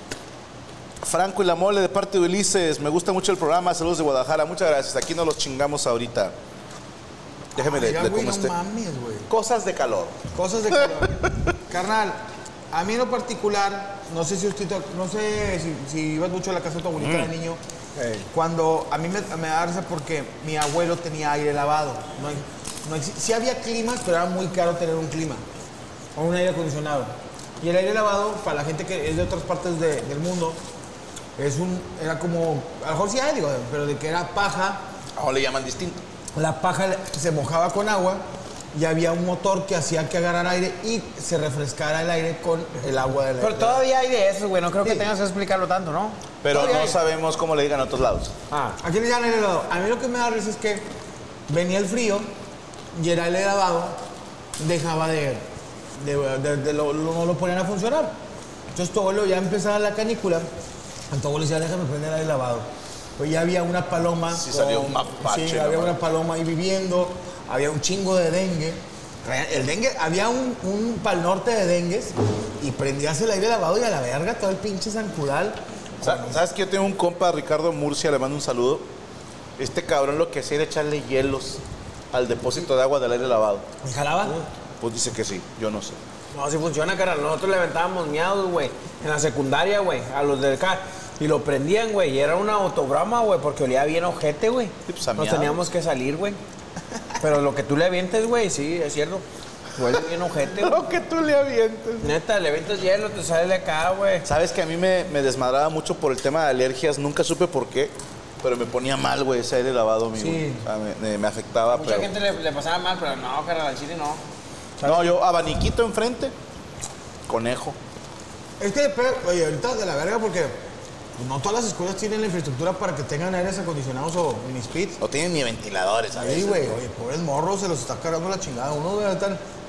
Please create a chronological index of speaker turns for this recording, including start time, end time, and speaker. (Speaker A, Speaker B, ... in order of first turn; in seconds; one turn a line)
Speaker A: 1.0-6.3
Speaker A: 7.5-8.5
Speaker B: 7.5-9.3
Speaker A: 9.3-10.2
Speaker B: 10.3-17.6
Speaker A: 10.9-11.3
Speaker A: 17.0-17.3
Speaker C: 18.0-18.3
Speaker B: 18.3-25.4
Speaker B: 26.1-30.6
Speaker B: 31.4-34.8
Speaker A: 35.1-36.0
Speaker B: 36.3-43.8
Speaker C: 43.4-46.2
Speaker A: 46.4-48.3
Speaker B: 46.5-47.0
Speaker C: 48.5-48.8
Speaker B: 48.8-50.9
Speaker B: 51.5-52.3
Speaker B: 52.9-54.0
Speaker B: 54.6-58.1
Speaker B: 58.7-60.5
Speaker B: 61.1-76.4
Speaker A: 64.3-66.0
Speaker A: 76.0-78.9
Speaker A: 79.6-81.6
Speaker A: 82.1-83.7
Speaker B: 83.8-84.4
Speaker A: 84.8-86.0
Speaker C: 86.3-96.4
Speaker A: 94.9-95.7
Speaker C: 97.2-99.2
Speaker C: 99.7-100.9
Speaker A: 100.5-102.1
Speaker C: 102.0-104.2
Speaker A: 104.2-112.1
Speaker B: 110.2-110.6
Speaker C: 111.7-114.2
Speaker C: 114.8-115.1
Speaker A: 114.8-116.3
Speaker A: 117.3-117.8
Speaker B: 118.6-120.6
Speaker B: 121.2-125.0
Speaker A: 125.0-126.8
Speaker B: 126.1-129.4